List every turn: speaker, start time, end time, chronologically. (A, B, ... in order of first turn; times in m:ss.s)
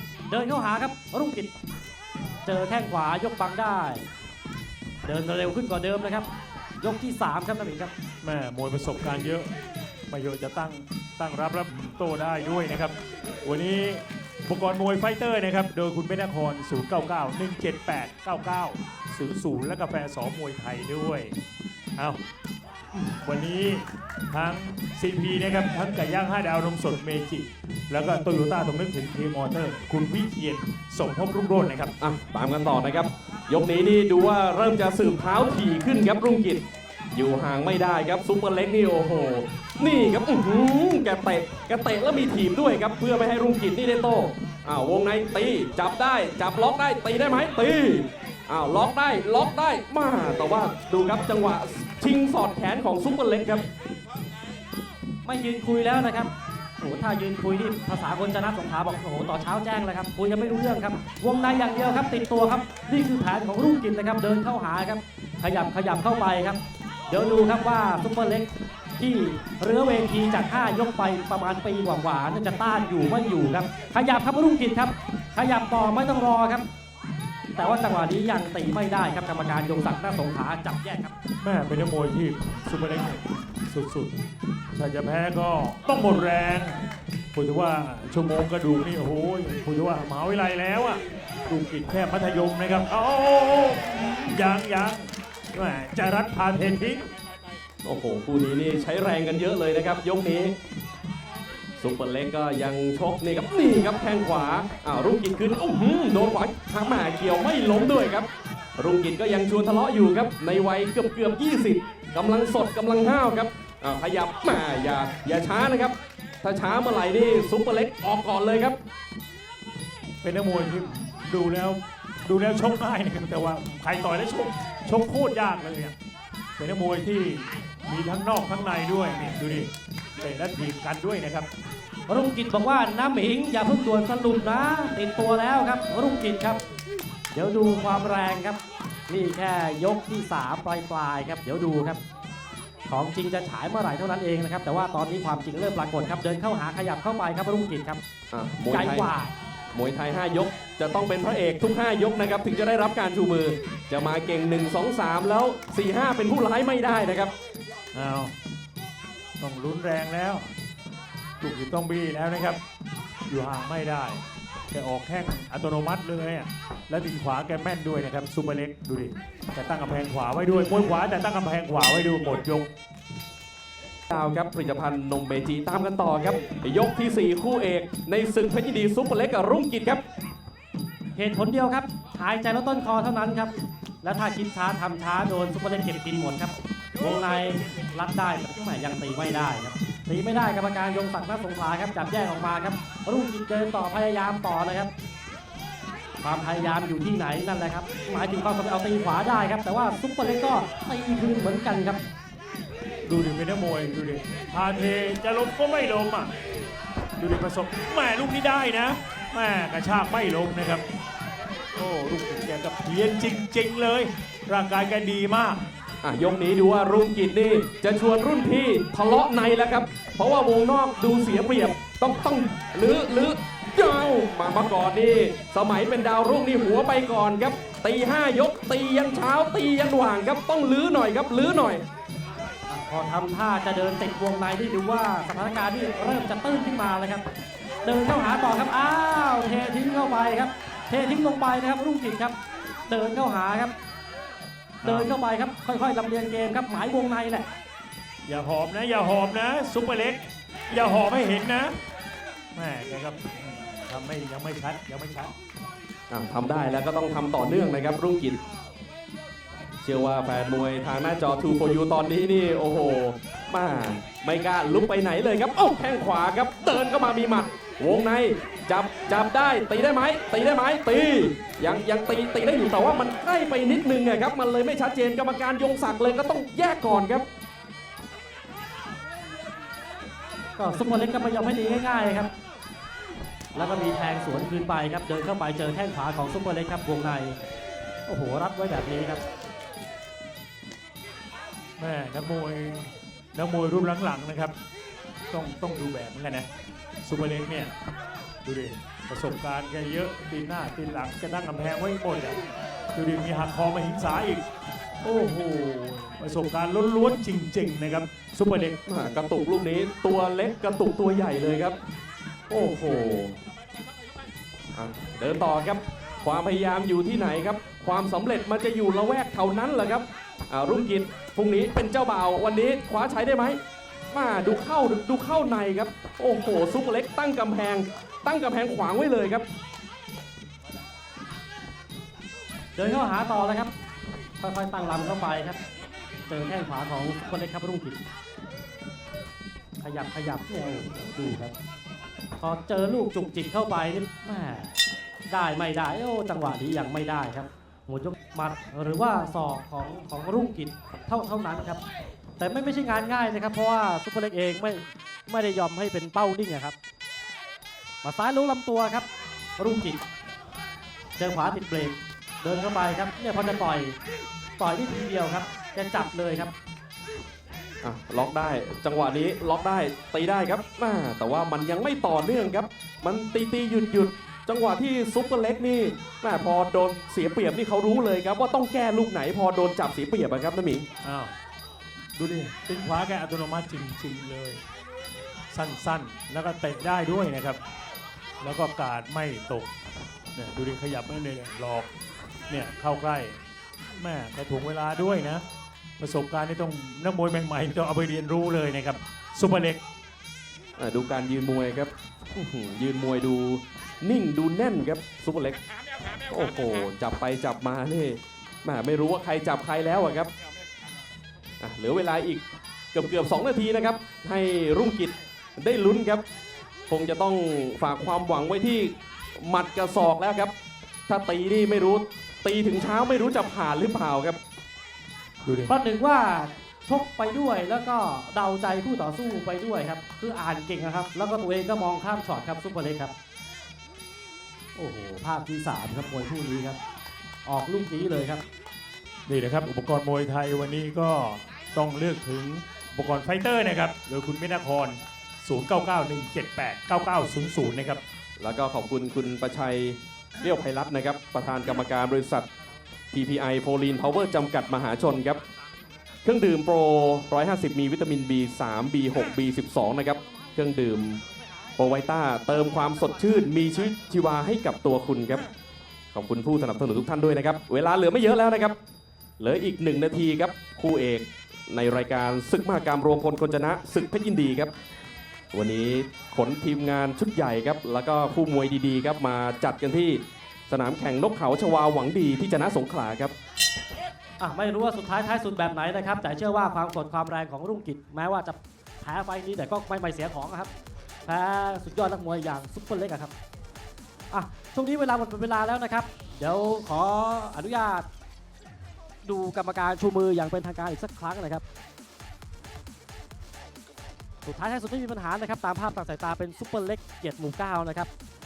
0:00.3-0:01.5 A
0:02.4-0:04.1 A
0:05.0-0:06.3 A
0:06.8-0:07.9 A
0:08.2-0:09.5 B
0:10.1-0:21.4 B
0:22.9-0:31.9 B
0:32.0-0:53.6 C
0:55.2-1:06.6 A
1:07.1-1:16.6 A
1:17.6-1:21.1 A
1:21.4-1:24.2 B
1:24.7-1:26.8 B
1:27.3-1:37.0 B
1:37.8-1:40.6 C
1:41.8-1:58.8 C
2:00.2-2:05.9 B
2:06.6-2:11.5 B
2:12.1-2:16.6 A
2:17.3-2:22.0 A
2:22.9-2:28.0 A
2:28.3-2:29.1 C
2:28.7-2:29.3 A
2:29.7-2:37.3 C
2:37.9-2:38.3 B
2:39.4-2:40.5 B
2:41.4-2:42.6 B
2:43.3-2:52.7 B
2:54.1-3:00.0 C
3:01.1-3:14.9 A
3:16.2-3:22.0 A
3:23.0-3:26.3 B
3:27.2-3:30.8 B
3:31.8-3:35.6 B
3:36.0-3:51.8 C
3:52.7-3:57.2 A
3:57.8-4:02.3 A
4:02.9-4:03.7 A
4:04.8-4:07.5 A
4:04.8-4:05.1 B
4:08.2-4:11.8 B
4:12.5-4:15.3 B
4:16.1-4:18.4 C
4:19.8-4:37.2 C
4:40.6-4:42.3 A
4:43.5-4:47.4 A
4:48.1-4:49.2 A
4:51.8-4:54.5 B
4:55.3-4:56.5 B
4:57.0-4:57.7 B
4:58.4-5:02.4 B
5:02.9-5:04.4 B
5:05.0-5:08.8 B
5:08.8-5:11.8 C
5:12.5-5:13.4 C
5:14.7-5:23.6 C
5:24.1-5:29.4 C
5:32.8-5:33.7 A
5:34.4-5:35.6 A
5:36.3-5:38.0 A
5:39.8-5:41.5 A
5:42.4-5:44.8 A
5:45.3-5:51.8 A
5:52.4-5:56.8 A
5:58.0-5:59.1 A
5:59.6-6:00.0 A
6:01.2-6:04.0 A
6:04.6-6:06.5 A
6:07.8-6:20.9 C
6:21.0-6:21.3 B
6:22.2-6:24.6 B
6:25.5-6:27.6 B
6:28.4-6:29.7 B
6:30.3-6:31.9 B
6:32.5-6:33.4 B
6:34.0-6:35.4 B
6:36.0-6:39.8 B
6:40.8-6:45.6 C
6:46.3-6:50.3 C
6:51.6-6:56.2 C
6:56.9-7:00.5 C
7:01.1-7:04.4 C
7:05.4-7:05.7 B
7:05.7-7:13.1 A
7:14.8-7:16.8 A
7:17.4-7:18.4 A
7:19.3-7:28.0 B
7:28.4-7:32.5 C
7:33.1-7:35.4 C
7:36.2-7:41.2 C
7:41.8-7:45.4 C
7:46.1-7:48.8 C
7:49.4-7:54.7 C
7:55.5-8:03.3 C
8:04.4-8:10.7 A
8:11.2-8:13.3 A
8:14.3-8:18.1 A
8:19.2-8:21.6 A
8:24.4-8:28.1 A